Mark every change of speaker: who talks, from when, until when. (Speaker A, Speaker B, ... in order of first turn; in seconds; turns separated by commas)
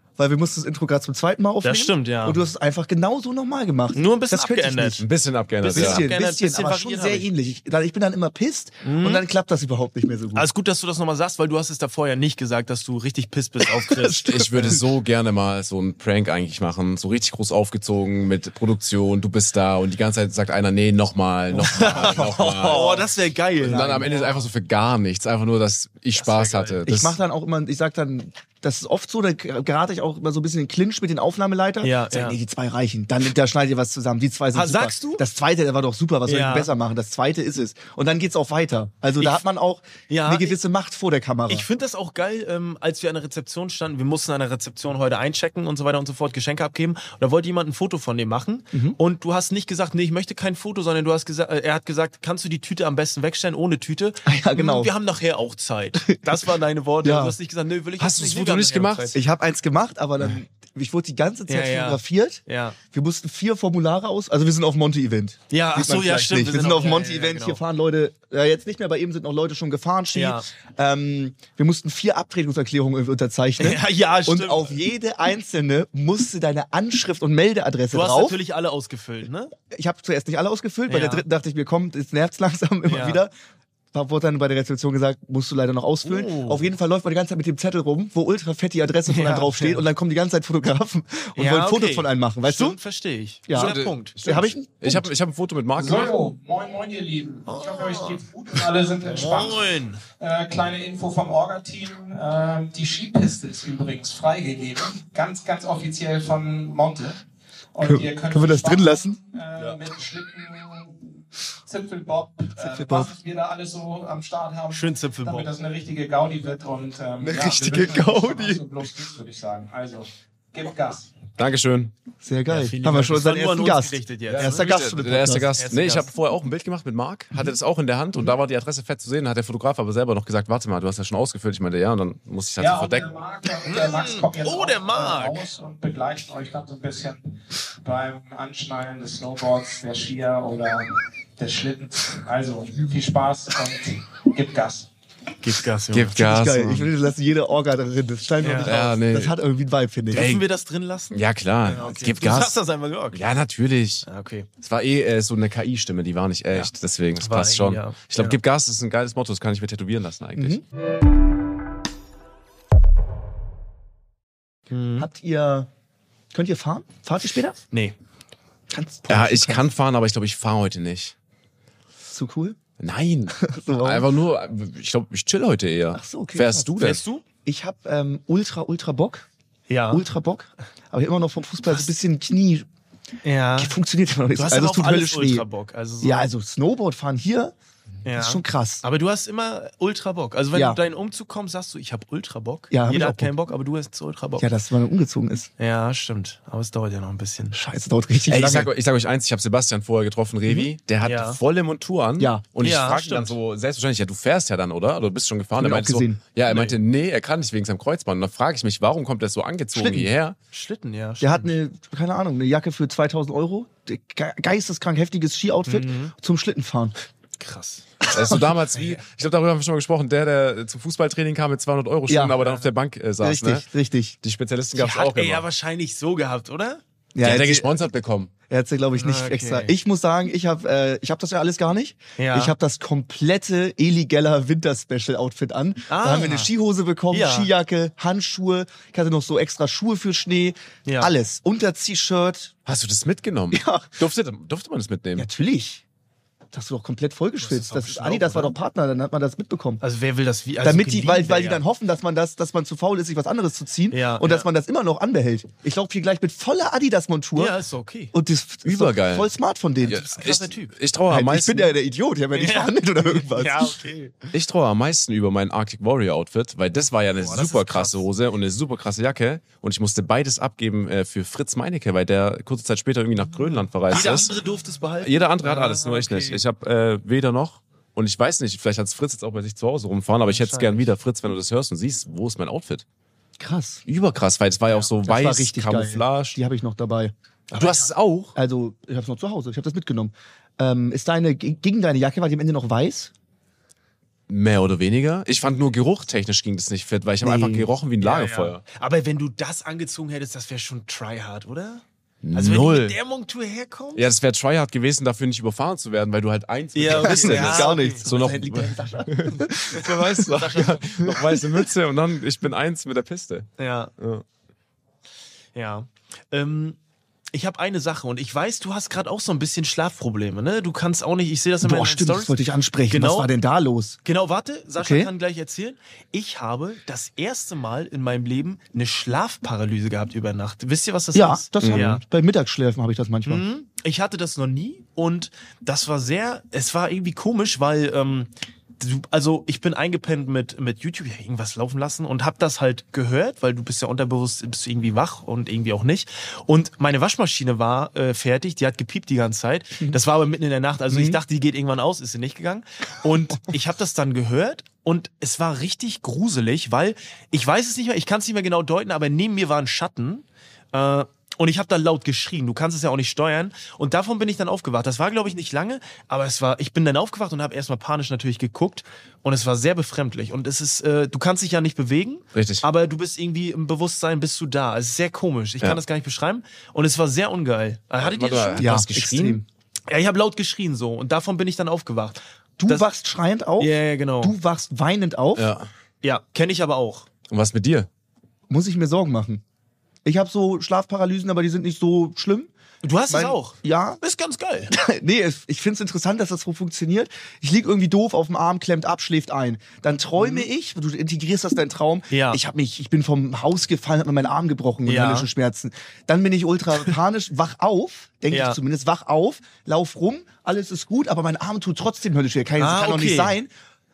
Speaker A: 0.2-5.0, Speaker B: 1.6-2.4, Speaker B: 3.9-5.0, Speaker C: 5.0-6.0, Speaker B: 5.6-7.3, Speaker A: 5.7-10.5, Speaker B: 8.8-9.2, Speaker B: 10.3-14.8, Speaker A: 13.8-14.7, Speaker C: 14.3-23.0, Speaker A: 21.5-23.1, Speaker B: 21.7-24.4, Speaker A: 23.6-24.2, Speaker C: 23.6-27.2, Speaker B: 26.1-26.8, Speaker A: 26.9-41.7, Speaker B: 31.8-32.4, Speaker B: 34.5-35.2, Speaker B: 36.2-36.7, Speaker B: 40.1-40.6, Speaker B: 41.5-59.2, Speaker A: 48.7-49.0, Speaker A: 54.2-54.9, Speaker A: 56.1-56.4, Speaker A: 57.0-57.4, Speaker C: 58.0-59.1, Speaker A: 59.1-78.4, Speaker B: 61.5-62.8, Speaker B: 65.5-67.6, Speaker B: 70.1-70.5, Speaker B: 73.6-74.8, Speaker B: 77.9-79.5, Speaker A: 79.7-83.3, Speaker B: 80.9-81.2, Speaker B: 82.8-83.2, Speaker A: 83.9-92.8, Speaker B: 86.0-86.7, Speaker B: 89.1-89.8, Speaker B: 91.3-94.5, Speaker A: 93.5-95.1, Speaker C: 93.5-96.1, Speaker D: 95.8-107.2, Speaker B: 97.5-98.2, Speaker B: 99.0-100.0, Speaker D: 107.7-121.2, Speaker A: 107.8-109.2, Speaker A: 112.6-113.1, Speaker B: 114.7-115.5, Speaker C: 117.3-118.4, Speaker A: 117.5-118.6, Speaker C: 121.4-121.9, Speaker A: 122.2-125.5, Speaker B: 122.5-124.7, Speaker C: 124.3-133.2, Speaker B: 125.6-126.1, Speaker D: 132.6-144.9, Speaker B: 133.6-135.4, Speaker B: 145.4-146.1, Speaker C: 145.9-146.9, Speaker A: 146.1-150.3, Speaker B: 148.4-148.7, Speaker C: 148.7-149.3, Speaker B: 150.1-153.2, Speaker C: 150.1-150.4, Speaker C: 151.1-152.6, Speaker C: 153.1-154.0, Speaker B: 154.0-154.5, Speaker C: 154.6-160.6, Speaker B: 156.5-158.4, Speaker A: 160.4-160.6, Speaker B: 164.7-165.1, Speaker A: 165.0-165.7, Speaker A: 166.3-167.6, Speaker B: 167.7-167.9, Speaker A: 168.7-169.6, Speaker C: 169.1-171.1, Speaker A: 172.1-172.6, Speaker C: 172.8-177.0, Speaker A: 173.4-174.1, Speaker A: 175.9-176.7, Speaker B: 176.8-177.2, Speaker A: 177.4-179.3, Speaker B: 179.7-180.1, Speaker A: 179.9-182.7, Speaker B: 183.2-183.7, Speaker A: 183.6-185.5, Speaker B: 184.3-186.3, Speaker A: 186.0-187.5, Speaker B: 188.0-194.5, Speaker A: 188.1-188.8, Speaker A: 190.5-190.8, Speaker A: 192.7-193.3, Speaker A: 194.4-195.5, Speaker B: 195.6-197.6, Speaker A: 197.5-198.7, Speaker C: 198.3-210.4, Speaker B: 201.0-201.4, Speaker A: 202.2-202.4, Speaker B: 202.6-203.3, Speaker A: 205.6-206.2, Speaker B: 206.5-206.7, Speaker A: 209.7-210.1, Speaker B: 210.5-211.5, Speaker A: 211.2-216.9, Speaker B: 215.7-216.1, Speaker B: 217.4-217.9, Speaker A: 218.0-218.5, Speaker C: 218.1-223.7, Speaker A: 222.1-222.3, Speaker A: 223.2-224.2, Speaker C: 224.2-225.4, Speaker B: 224.7-226.8, Speaker A: 227.1-227.7, Speaker C: 227.2-228.3, Speaker A: 228.5-242.5, Speaker B: 228.9-229.7, Speaker B: 232.2-232.5, Speaker B: 235.9-236.5, Speaker B: 237.1-237.5, Speaker B: 240.8-241.1, Speaker C: 242.7-245.3, Speaker A: 243.5-244.0, Speaker A: 245.2-245.8, Speaker A: 246.5-249.8, Speaker B: 247.4-248.5, Speaker B: 249.8-251.6, Speaker A: 250.6-257.5, Speaker B: 253.9-254.5, Speaker B: 257.4-258.1, Speaker A: 258.1-260.1, Speaker C: 258.6-259.3, Speaker C: 259.8-261.7, Speaker B: 259.9-260.7, Speaker A: 261.1-263.8, Speaker B: 262.3-264.1, Speaker C: 264.3-274.3, Speaker B: 267.2-268.0, Speaker B: 273.9-276.4, Speaker C: 275.0-282.8, Speaker B: 280.3-280.9, Speaker A: 283.4-283.8, Speaker C: 283.9-286.4, Speaker A: 285.0-287.1, Speaker B: 287.5-287.8, Speaker C: 287.6-288.3, Speaker A: 288.3-293.1, Speaker C: 294.3-298.6, Speaker A: 297.2-297.7, Speaker B: 298.0-301.8, Speaker C: 302.2-302.9, Speaker B: 302.3-304.0, Speaker C: 303.9-314.2, Speaker B: 306.7-308.1, Speaker A: 306.9-310.4, Speaker B: 310.3-310.9, Speaker A: 311.0-311.7, Speaker B: 313.6-313.9, Speaker B: 315.5-316.8, Speaker B: 317.3-322.4, Speaker A: 321.6-324.0, Speaker B: 322.9-323.3, Speaker B: 324.0-332.0, Speaker A: 324.8-325.1, Speaker A: 331.1-333.4, Speaker C: 331.6-331.9, Speaker B: 333.2-378.7, Speaker A: 350.9-351.2, Speaker C: 372.3-372.6, Speaker C: 378.0-379.4, Speaker A: 378.6-379.4, Speaker B: 379.9-382.9, Speaker A: 382.6-385.5, Speaker B: 383.6-384.4, Speaker C: 385.4-385.7, Speaker B: 386.0-387.1, Speaker C: 387.3-387.9, Speaker A: 388.5-389.4, Speaker A: 390.0-392.5, Speaker B: 392.8-394.7, Speaker A: 393.1-394.0, Speaker A: 394.7-413.5, Speaker B: 400.2-400.4, Speaker B: 402.1-402.4, Speaker B: 404.9-405.3, Speaker B: 408.3-408.6, Speaker B: 412.6-413.4